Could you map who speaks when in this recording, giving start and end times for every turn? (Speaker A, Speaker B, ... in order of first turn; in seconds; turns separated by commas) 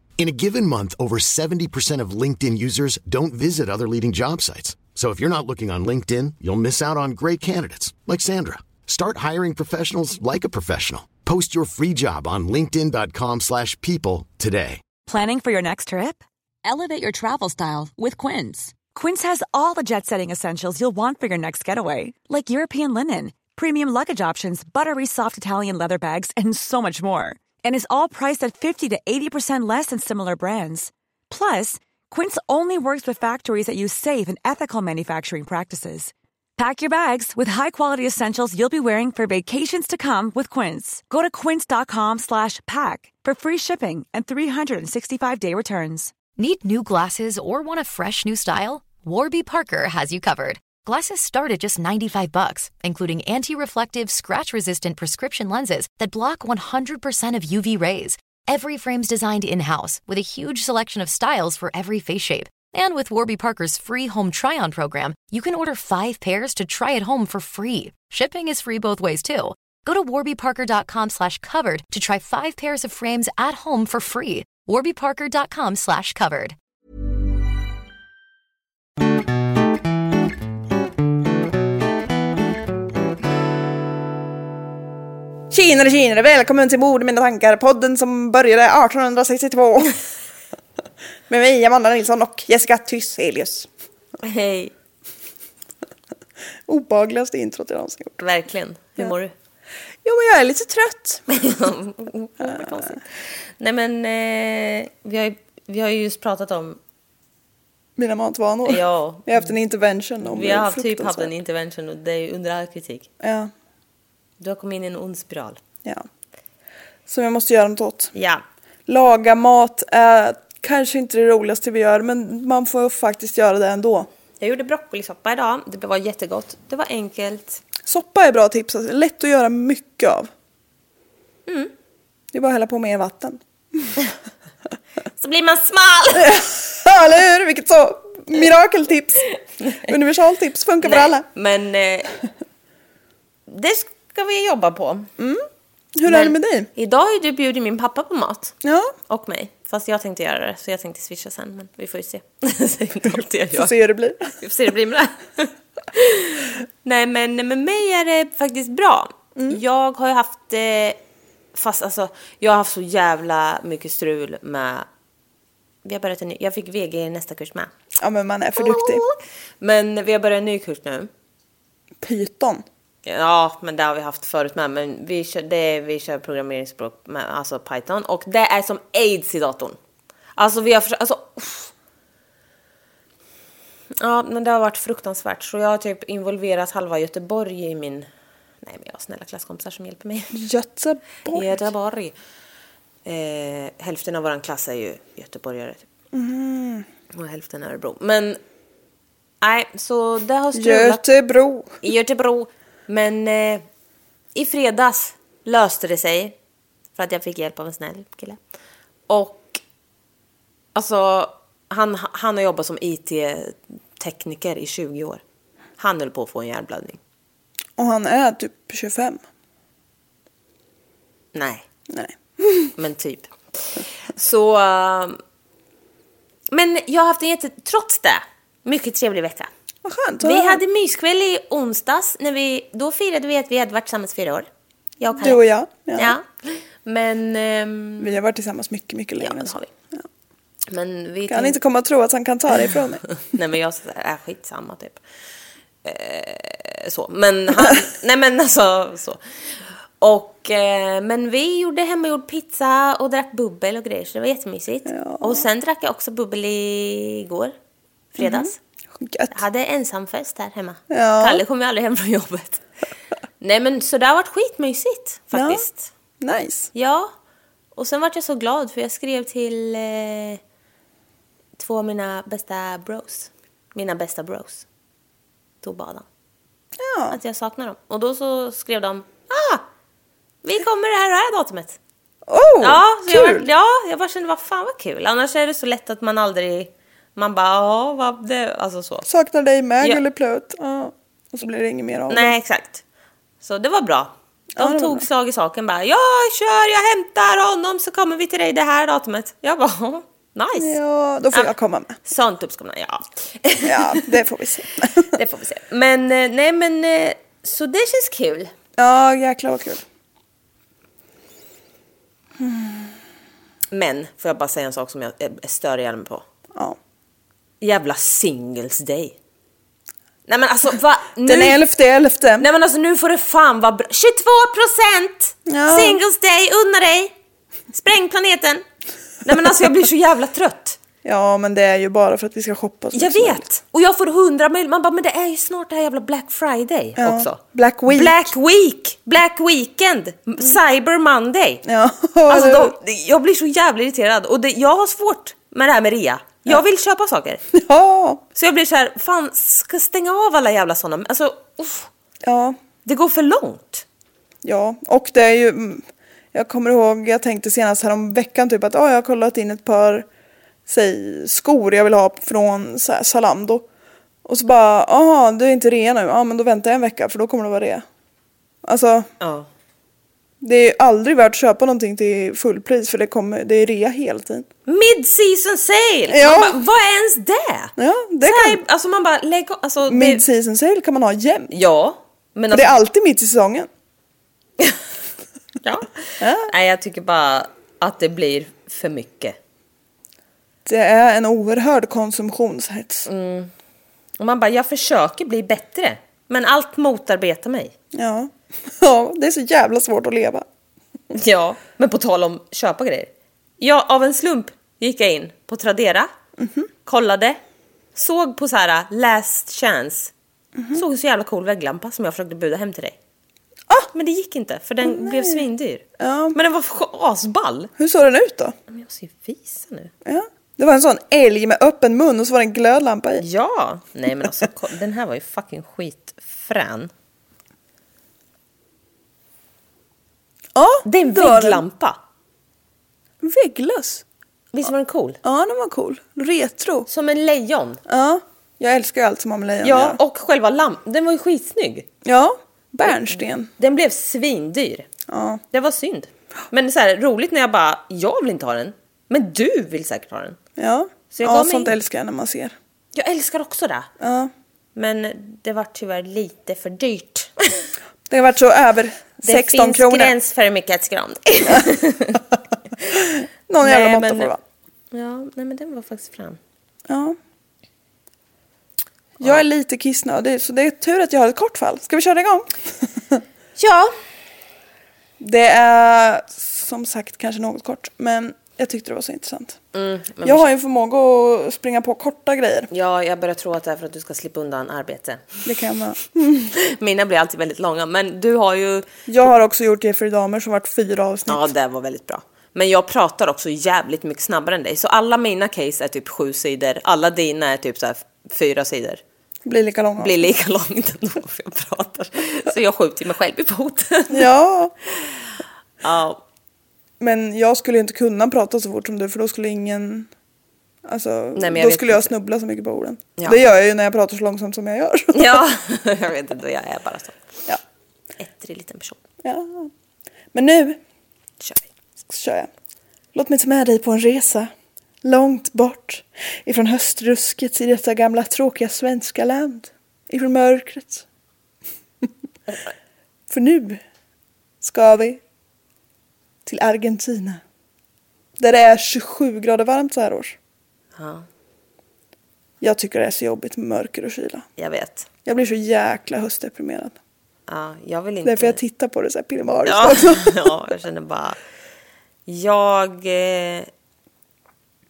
Speaker A: 0.2-14.8, Speaker B: 15.1-46.2, Speaker C: 46.4-76.5, Speaker D: 85.5-90.0, Speaker D: 91.3-93.7, Speaker E: 94.2-94.7, Speaker D: 96.7-98.2, Speaker E: 98.2-99.3, Speaker D: 100.0-101.2, Speaker E: 101.3-106.8, Speaker D: 108.0-111.3, Speaker E: 108.7-109.5, Speaker E: 110.2-113.1, Speaker D: 113.2-113.5, Speaker E: 114.4-115.6, Speaker D: 117.1-118.1, Speaker E: 118.1-118.4, Speaker D: 118.9-124.1, Speaker E: 124.4-127.6, Speaker D: 127.8-130.3, Speaker E: 131.5-131.7, Speaker D: 132.3-133.9, Speaker E: 135.2-136.4, Speaker D: 136.2-139.3, Speaker D: 139.8-141.2, Speaker E: 140.8-142.1, Speaker E: 143.5-145.1, Speaker D: 145.2-146.7, Speaker E: 146.1-148.6, Speaker D: 148.6-148.9, Speaker E: 149.1-161.0, Speaker D: 153.5-154.3, Speaker E: 161.6-164.9, Speaker E: 165.8-167.7, Speaker D: 168.0-169.0, Speaker E: 168.6-171.1, Speaker D: 172.0-172.6, Speaker E: 173.1-179.8, Speaker E: 180.4-181.7, Speaker E: 184.0-188.1, Speaker E: 188.6-190.3, Speaker D: 190.3-191.5, Speaker E: 191.3-192.2, Speaker E: 193.1-195.8, Speaker D: 196.1-196.9, Speaker E: 197.1-198.4, Speaker E: 199.4-201.1, Speaker D: 200.5-201.8, Speaker E: 201.8-203.7, Speaker E: 204.3-206.4, Speaker E: 207.0-208.4, Speaker E: 209.1-209.6, Speaker E: 210.8-215.2, Speaker E: 215.8-217.0, Speaker D: 217.8-219.2, Speaker E: 221.3-221.7, Speaker D: 221.9-222.7, Speaker E: 222.8-225.2, Speaker E: 226.5-229.5, Speaker D: 229.8-230.6, Speaker E: 230.2-234.5, Speaker E: 235.0-235.4, Speaker D: 235.2-236.2, Speaker E: 235.9-238.2, Speaker D: 238.0-240.1, Speaker E: 239.2-239.7, Speaker E: 240.7-241.6, Speaker D: 241.3-243.0, Speaker E: 243.2-245.0, Speaker E: 245.8-249.2, Speaker E: 250.0-257.6, Speaker D: 254.9-255.4, Speaker E: 258.2-258.6, Speaker D: 258.2-259.4, Speaker E: 259.3-262.6, Speaker D: 260.9-261.4, Speaker E: 263.4-265.9, Speaker D: 265.3-265.7, Speaker D: 266.2-266.7, Speaker E: 266.7-267.1, Speaker E: 267.8-270.4, Speaker E: 271.6-274.6, Speaker E: 275.6-276.1, Speaker D: 276.8-277.2, Speaker E: 277.1-279.7, Speaker E: 280.4-281.8, Speaker D: 282.3-283.4, Speaker E: 282.6-289.1, Speaker D: 289.1-292.4, Speaker E: 292.1-292.8, Speaker E: 293.4-300.8, Speaker D: 294.6-295.1, Speaker D: 300.6-302.0, Speaker E: 302.1-304.1, Speaker D: 303.6-305.1, Speaker E: 305.1-308.5, Speaker D: 308.8-309.8, Speaker D: 312.4-312.9, Speaker E: 313.7-316.2, Speaker E: 317.6-319.2, Speaker E: 320.3-321.6, Speaker D: 321.2-322.4, Speaker E: 322.4-327.1, Speaker D: 325.5-326.0, Speaker E: 327.7-328.6, Speaker E: 329.2-330.8, Speaker D: 331.0-333.4, Speaker E: 332.9-341.6, Speaker D: 337.0-338.3, Speaker D: 341.6-342.8, Speaker E: 342.3-347.4, Speaker D: 347.5-348.2, Speaker E: 348.4-351.9, Speaker D: 352.2-352.6, Speaker E: 352.9-353.9, Speaker D: 354.4-360.1, Speaker D: 360.7-363.7, Speaker D: 364.2-367.9, Speaker D: 368.6-369.1, Speaker E: 369.2-369.5, Speaker D: 370.4-374.5, Speaker E: 374.7-380.2, Speaker D: 376.1-376.6, Speaker D: 377.8-378.6, Speaker D: 379.9-381.5, Speaker E: 381.5-382.8, Speaker D: 382.5-383.7, Speaker E: 385.6-389.4, Speaker D: 386.2-386.5, Speaker D: 390.6-393.1, Speaker E: 393.1-393.5, Speaker E: 394.2-397.8, Speaker D: 397.9-400.4, Speaker E: 401.1-406.1, Speaker D: 406.4-406.7, Speaker E: 406.9-407.4, Speaker E: 407.9-410.1, Speaker E: 410.7-413.0, Speaker E: 413.9-415.8, Speaker D: 414.8-415.5, Speaker D: 416.0-416.4, Speaker E: 416.3-417.7, Speaker D: 417.8-418.6, Speaker E: 418.7-419.9, Speaker D: 420.1-423.2, Speaker E: 423.2-426.9, Speaker D: 430.6-431.6, Speaker E: 430.8-432.0, Speaker D: 433.2-434.0, Speaker E: 434.5-435.2, Speaker D: 435.2-436.9, Speaker E: 436.9-437.8, Speaker D: 437.9-440.0, Speaker E: 439.6-441.9, Speaker D: 442.0-443.5, Speaker E: 442.9-444.9, Speaker D: 445.1-445.4, Speaker E: 445.5-450.4, Speaker D: 450.6-452.6, Speaker E: 451.1-451.8, Speaker E: 452.9-453.9, Speaker D: 454.0-454.3, Speaker E: 454.8-457.7, Speaker D: 458.1-460.1, Speaker E: 459.2-462.2, Speaker D: 463.5-464.4, Speaker E: 463.6-464.3, Speaker E: 464.9-466.4, Speaker D: 466.9-467.2, Speaker D: 469.2-473.2, Speaker E: 473.6-473.9, Speaker D: 475.2-479.6, Speaker E: 479.7-480.5, Speaker D: 480.2-482.7, Speaker E: 482.7-485.3, Speaker D: 485.4-486.5, Speaker E: 486.5-488.9, Speaker D: 489.1-491.5, Speaker E: 491.3-499.0, Speaker D: 499.4-500.2, Speaker E: 500.0-504.3, Speaker D: 504.1-504.7, Speaker E: 505.8-506.2, Speaker D: 507.0-510.1, Speaker D: 510.9-515.4, Speaker E: 511.4-512.1, Speaker E: 515.1-517.2, Speaker E: 518.2-519.0, Speaker D: 519.2-519.7, Speaker D: 520.3-520.8, Speaker E: 521.4-521.7, Speaker D: 522.1-522.5, Speaker D: 523.1-524.5, Speaker D: 525.0-531.0, Speaker D: 533.3-533.8, Speaker D: 534.6-535.2, Speaker D: 536.5-537.4, Speaker D: 538.4-540.4, Speaker E: 541.0-541.3, Speaker D: 542.6-544.5, Speaker E: 544.6-545.1, Speaker D: 545.2-547.0, Speaker E: 547.5-548.6, Speaker D: 548.2-550.5, Speaker E: 549.6-551.4, Speaker E: 552.3-553.7